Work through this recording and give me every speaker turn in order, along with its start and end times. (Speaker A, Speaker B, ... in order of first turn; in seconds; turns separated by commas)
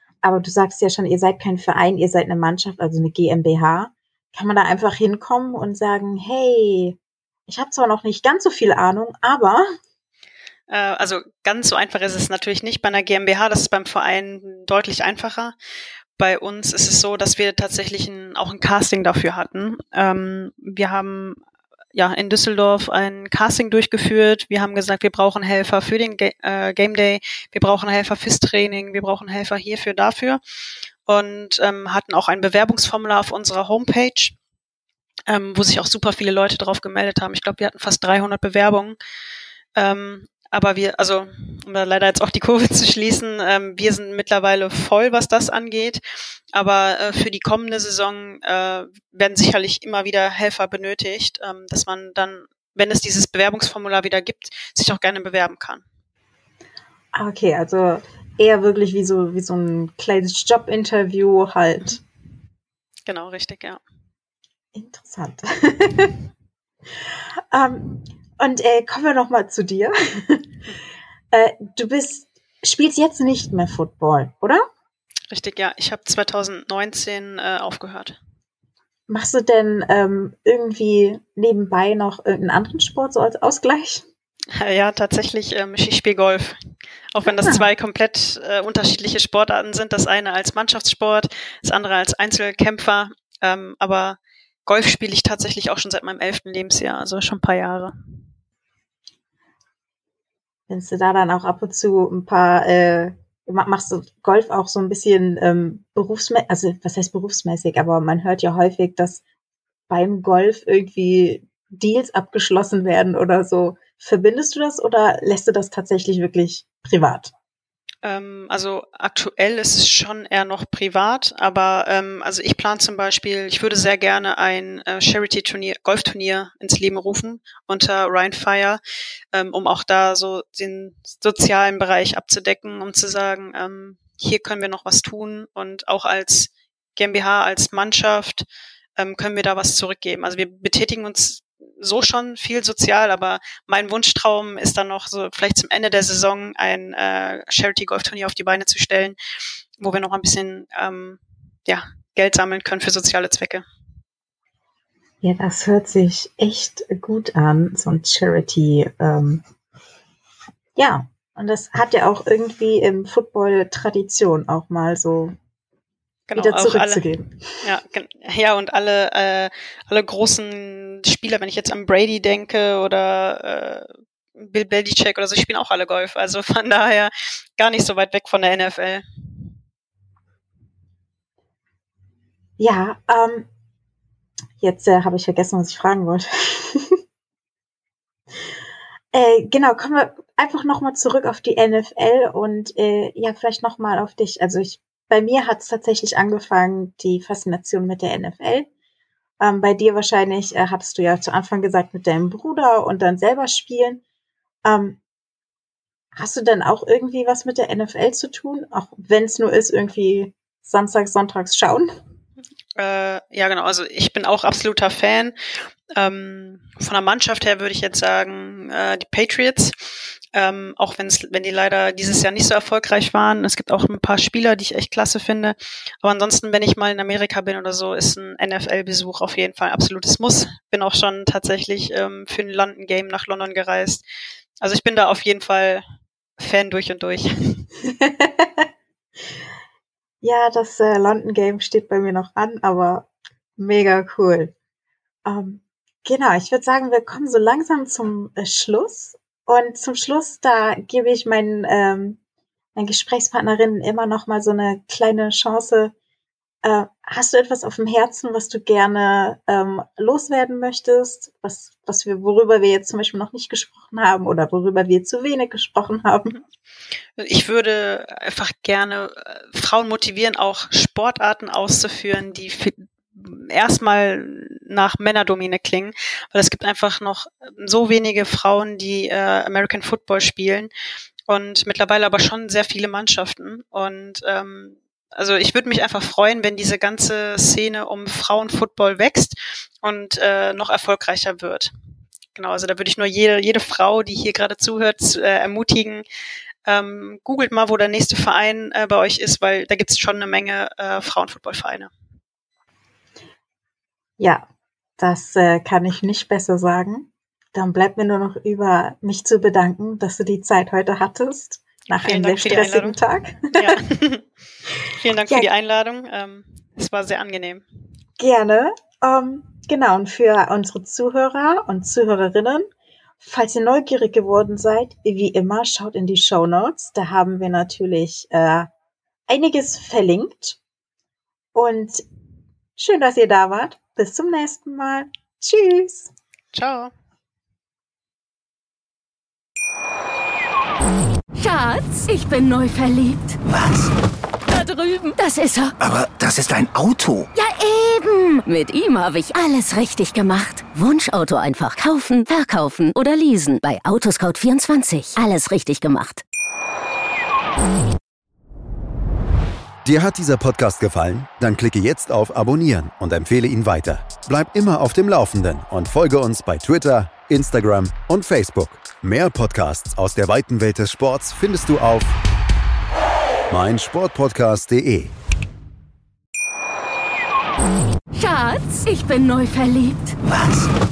Speaker A: 0.2-9.7, Speaker B: 10.7-15.5, Speaker B: 16.2-21.4, Speaker B: 21.9-30.4, Speaker B: 31.1-34.4, Speaker B: 35.3-39.0, Speaker B: 39.8-46.0, Speaker B: 46.5-55.8, Speaker A: 57.1-62.0, Speaker B: 63.0-63.8, Speaker A: 64.7-66.2, Speaker A: 67.5-70.5, Speaker A: 71.3-74.6, Speaker B: 75.3-78.2, Speaker A: 79.1-84.0, Speaker B: 84.5-86.6, Speaker B: 87.1-97.9, Speaker A: 87.2-87.6, Speaker A: 100.7-109.2, Speaker A: 109.9-117.3, Speaker B: 118.0-128.8, Speaker B: 129.3-138.4, Speaker B: 139.0-149.2, Speaker B: 149.8-153.6, Speaker A: 155.2-159.4, Speaker A: 160.8-165.3, Speaker B: 166.3-167.1, Speaker A: 166.3-167.5, Speaker B: 167.6-179.0, Speaker A: 182.6-183.5, Speaker A: 184.6-187.0, Speaker A: 189.1-198.7, Speaker A: 199.4-204.0, Speaker A: 204.6-205.0, Speaker A: 206.1-211.9, Speaker B: 212.8-215.3, Speaker B: 215.9-234.0, Speaker B: 234.6-235.8, Speaker B: 236.4-237.7, Speaker A: 237.8-238.7, Speaker A: 240.2-244.5, Speaker A: 245.2-252.2, Speaker A: 252.7-255.9, Speaker A: 256.6-266.4, Speaker B: 267.2-280.7, Speaker B: 281.3-291.7, Speaker B: 292.3-296.0, Speaker B: 296.6-301.9, Speaker A: 304.2-304.4, Speaker A: 305.0-313.8, Speaker B: 312.0-313.0, Speaker B: 313.5-314.2, Speaker B: 314.9-317.6, Speaker A: 318.2-322.6, Speaker A: 323.2-328.7, Speaker A: 329.3-330.6, Speaker A: 331.5-332.0, Speaker A: 332.8-336.1, Speaker B: 336.5-336.9, Speaker C: 341.3-343.4, Speaker D: 343.4-343.9, Speaker C: 344.5-345.7, Speaker D: 345.8-347.3, Speaker C: 347.3-356.2, Speaker E: 359.8-372.2, Speaker E: 373.5-375.1, Speaker C: 378.1-380.2, Speaker D: 380.2-380.7